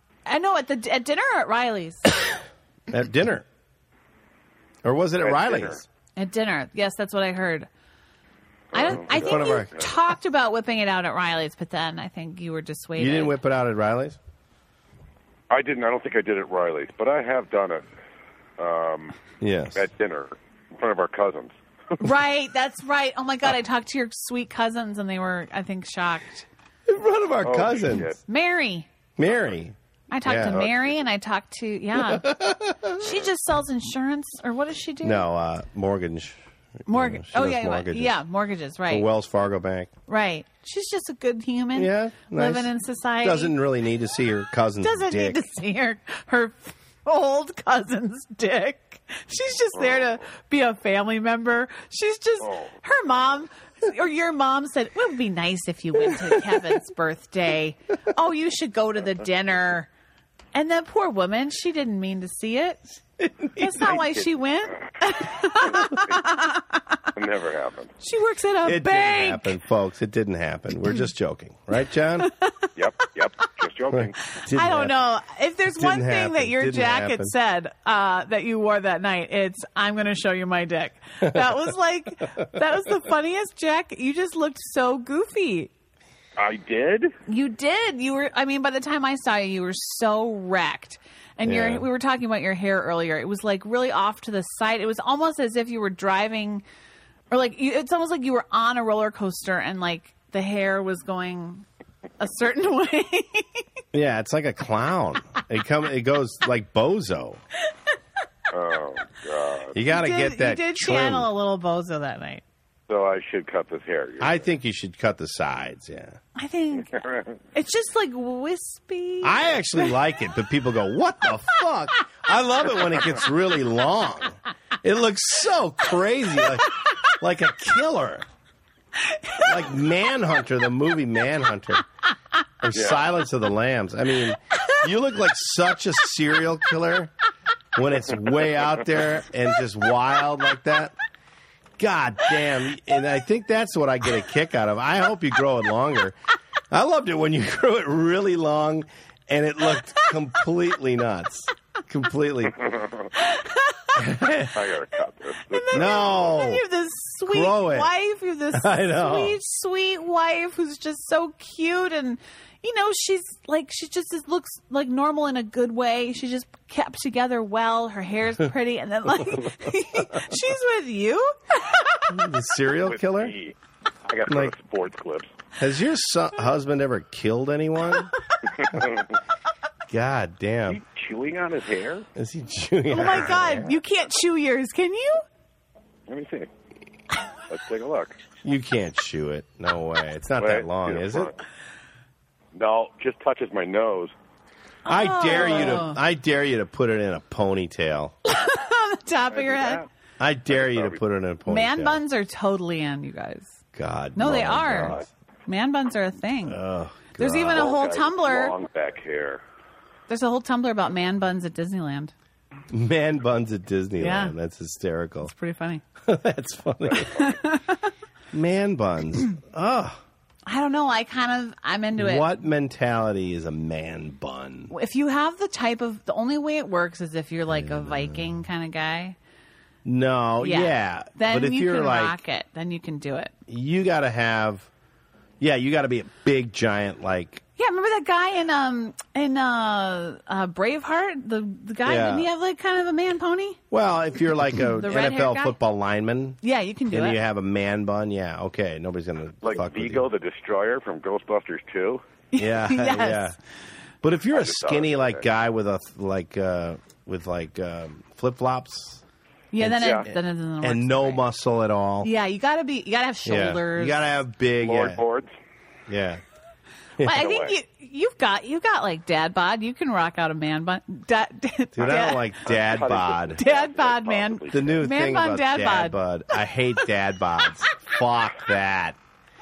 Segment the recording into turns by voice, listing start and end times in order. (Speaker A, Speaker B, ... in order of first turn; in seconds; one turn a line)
Speaker A: 0.2-2.2
Speaker B: 2.9-3.5
Speaker B: 4.8-5.8
Speaker C: 5.2-5.8
Speaker A: 6.2-7.7
Speaker A: 8.7-13.3
Speaker C: 8.7-9.8
Speaker B: 8.8-9.9
Speaker B: 13.0-14.2
Speaker C: 15.5-17.8
Speaker C: 18.6-19.2
Speaker B: 19.4-19.8
Speaker C: 19.7-21.5
Speaker A: 22.0-26.5
Speaker B: 26.9-28.1
Speaker C: 27.4-28.2
Speaker A: 28.2-28.9
Speaker B: 29.2-30.8
Speaker A: 30.1-32.3
Speaker B: 31.9-33.0
Speaker A: 32.9-35.2
Speaker B: 35.0-38.2
Speaker A: 36.9-39.1
Speaker B: 38.9-39.9
Speaker A: 40.1-43.5
Speaker B: 41.7-42.7
Speaker B: 43.2-45.4
Speaker A: 44.8-59.9
Speaker C: 49.8-50.1
Speaker C: 52.4-52.7
Speaker A: 60.5-63.0
Speaker B: 63.2-63.9
Speaker A: 63.5-67.0
Speaker C: 63.9-64.2
Speaker C: 65.6-65.9
Speaker C: 67.1-67.9
Speaker A: 68.0-69.6
Speaker B: 68.6-72.3
Speaker A: 72.2-73.5
Speaker C: 72.8-74.2
Speaker B: 73.9-74.9
Speaker A: 74.3-85.7
Speaker B: 75.7-77.3
Speaker B: 81.2-81.5
Speaker C: 86.4-87.1
Speaker A: 87.3-96.6
Speaker B: 91.4-91.8
Speaker A: 97.3-101.7
Speaker A: 102.2-103.6
Speaker B: 103.9-107.4
Speaker C: 108.5-109.8
Speaker B: 109.7-111.3
Speaker A: 109.8-112.4
Speaker C: 112.9-114.4
Speaker B: 114.2-116.2
Speaker A: 116.3-117.0
Speaker C: 116.9-117.3
Speaker A: 117.5-119.9
Speaker B: 119.2-128.2
Speaker A: 129.0-129.5
Speaker B: 129.4-131.8
Speaker B: 132.6-137.1
Speaker C: 132.7-133.0
Speaker B: 137.7-140.9
Speaker B: 141.8-146.2
Speaker B: 146.7-152.9
Speaker A: 153.1-154.0
Speaker B: 153.9-154.7
Speaker C: 154.5-156.4
Speaker A: 155.5-172.1
Speaker B: 155.7-156.6
Speaker B: 157.3-157.9
Speaker B: 158.5-159.4
Speaker B: 172.1-173.3
Speaker C: 172.8-175.3
Speaker B: 174.3-174.5
Speaker B: 175.6-178.1
Speaker C: 178.5-179.1
Speaker B: 179.9-180.8
Speaker C: 180.7-182.1
Speaker B: 182.1-183.8
Speaker A: 182.9-185.2
Speaker C: 186.1-186.5
Speaker C: 187.5-188.2
Speaker B: 188.4-191.3
Speaker C: 190.4-191.3
Speaker C: 192.5-194.1
Speaker A: 194.8-196.0
Speaker B: 194.9-198.1
Speaker A: 198.2-199.8
Speaker C: 199.3-199.9
Speaker B: 200.2-202.0
Speaker C: 200.5-201.0
Speaker A: 201.5-203.6
Speaker B: 203.7-205.1
Speaker A: 204.1-206.6
Speaker B: 206.4-207.7
Speaker A: 207.2-208.6
Speaker C: 207.5-209.4
Speaker A: 210.1-212.1
Speaker B: 212.7-215.3
Speaker A: 214.0-214.3
Speaker A: 215.2-215.8
Speaker B: 216.0-217.3
Speaker A: 217.1-217.9
Speaker B: 218.3-220.0
Speaker A: 220.4-222.3
Speaker B: 222.0-224.7
Speaker A: 224.7-229.2
Speaker B: 227.5-228.4
Speaker B: 229.8-232.2
Speaker A: 230.4-233.3
Speaker B: 233.5-234.7
Speaker B: 235.4-237.4
Speaker A: 237.6-243.6
Speaker B: 241.8-242.3
Speaker B: 243.7-246.4
Speaker A: 244.7-245.6
Speaker A: 246.4-247.2
Speaker B: 246.9-250.0
Speaker C: 249.4-252.0
Speaker A: 252.3-253.3
Speaker B: 252.4-253.4
Speaker B: 254.0-259.0
Speaker C: 254.3-255.2
Speaker A: 259.5-261.2
Speaker B: 259.6-262.1
Speaker C: 259.8-260.1
Speaker A: 262.0-264.0
Speaker B: 263.2-265.0
Speaker C: 264.6-265.3
Speaker B: 265.9-266.2
Speaker B: 267.0-267.2
Speaker A: 267.0-272.3
Speaker C: 267.1-267.5
Speaker B: 271.7-273.4
Speaker C: 271.8-274.9
Speaker A: 273.4-276.0
Speaker B: 274.5-279.0